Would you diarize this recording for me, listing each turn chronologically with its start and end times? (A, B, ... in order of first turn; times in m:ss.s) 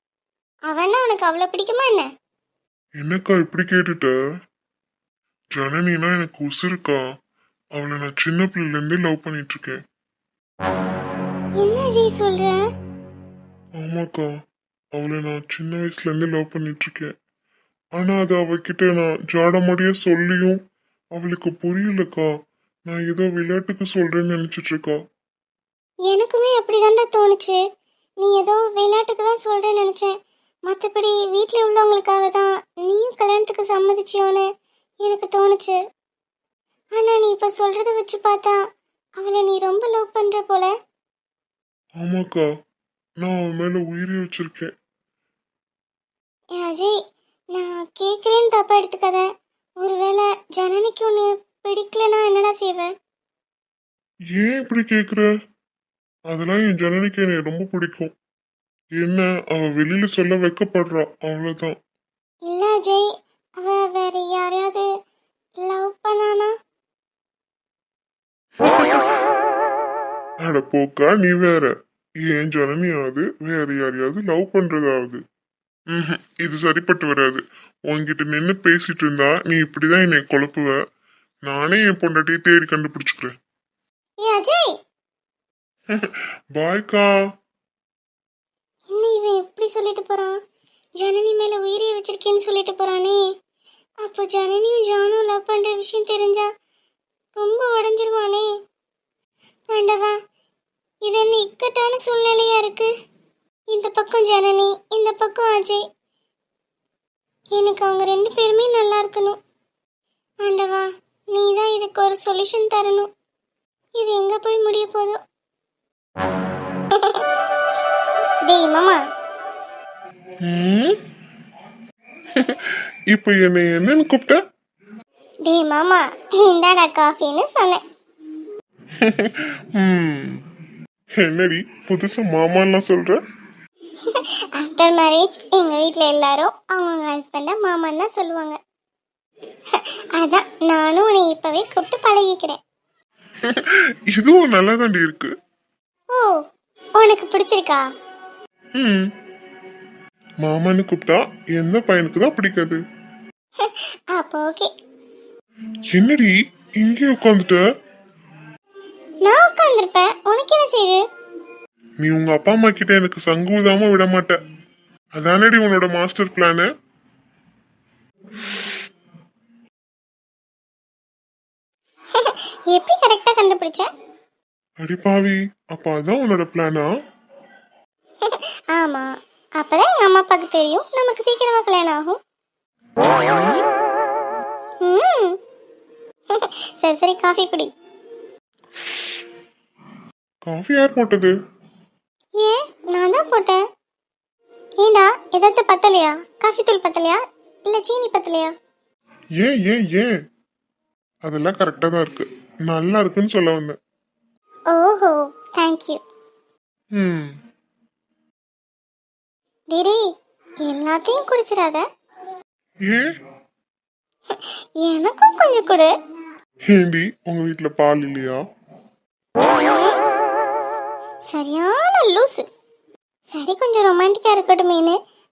0:00.7-0:02.1 A
0:03.0-0:04.1 B
0:05.5-0:07.0 B
0:07.8-0:09.8 B
0:11.6-0:12.6 A
0:13.8-0:14.3 B
0:15.0-0:17.1 B
0:18.0-0:20.6 B
0:21.1-0:22.3 B
0:22.9-0:25.0 B
0:26.1-0:27.6 A
0:28.2-0:30.1 A
0:30.7-0:34.4 A
0:35.0-0:35.8 A
0:37.0-0:38.6 A
0:39.2-0:40.7 A
0:42.0-0:42.4 B
0:43.2-0:44.7 B
0:46.6-0:46.9 A
0:47.5-0:49.2 A
0:49.8-0:52.9 A
0:54.3-0:55.3 B
0:56.3-0:58.1 B
0:59.0-1:01.8 B
1:02.5-1:03.1 A
1:03.6-1:04.8 A
1:05.6-1:06.5 A
1:10.4-1:15.2 B
1:15.9-1:20.8 B
1:21.4-1:23.3 B
1:24.2-1:24.7 A
1:25.9-1:27.1 B
1:28.9-1:30.3 A
1:31.0-1:33.2 A
1:34.0-1:36.5 A
1:37.4-1:38.5 A
1:39.7-1:40.1 A
1:41.0-1:42.9 A
1:43.7-1:45.8 A
1:47.5-1:49.4 A
1:50.4-1:53.1 A
1:54.0-1:55.2 A
1:57.0-1:57.2 A
1:58.4-1:59.0 A
2:00.4-2:01.0 B
2:02.4-2:04.4 B
2:05.4-2:07.8 A
2:09.0-2:10.4 B
2:11.2-2:13.2 B
2:14.1-2:18.6 A
2:19.8-2:22.6 A
2:23.4-2:25.3 B
2:27.0-2:27.8 A
2:28.8-2:29.1 B
2:30.4-2:32.8 B
2:33.6-2:34.7 A
2:35.9-2:37.6 B
2:39.2-2:41.0 A
2:42.0-2:44.4 B
2:45.2-2:46.7 B
2:52.2-2:53.9 A
2:54.8-2:56.9 B
2:58.2-3:02.2 A
3:03.0-3:03.6 B
3:04.8-3:05.4 A
3:06.3-3:07.7 A
3:10.4-3:11.3 B
3:12.4-3:13.6 A
3:14.8-3:18.5 A
3:19.4-3:20.1 B
3:21.2-3:23.8 B
3:24.7-3:26.0 A
3:26.9-3:27.4 B
3:29.7-3:30.0 A
3:30.6-3:31.8 A
3:34.8-3:35.9 A
3:36.7-3:38.4 B
3:39.5-3:40.0 A
3:41.3-3:42.4 A
3:43.3-3:44.9 A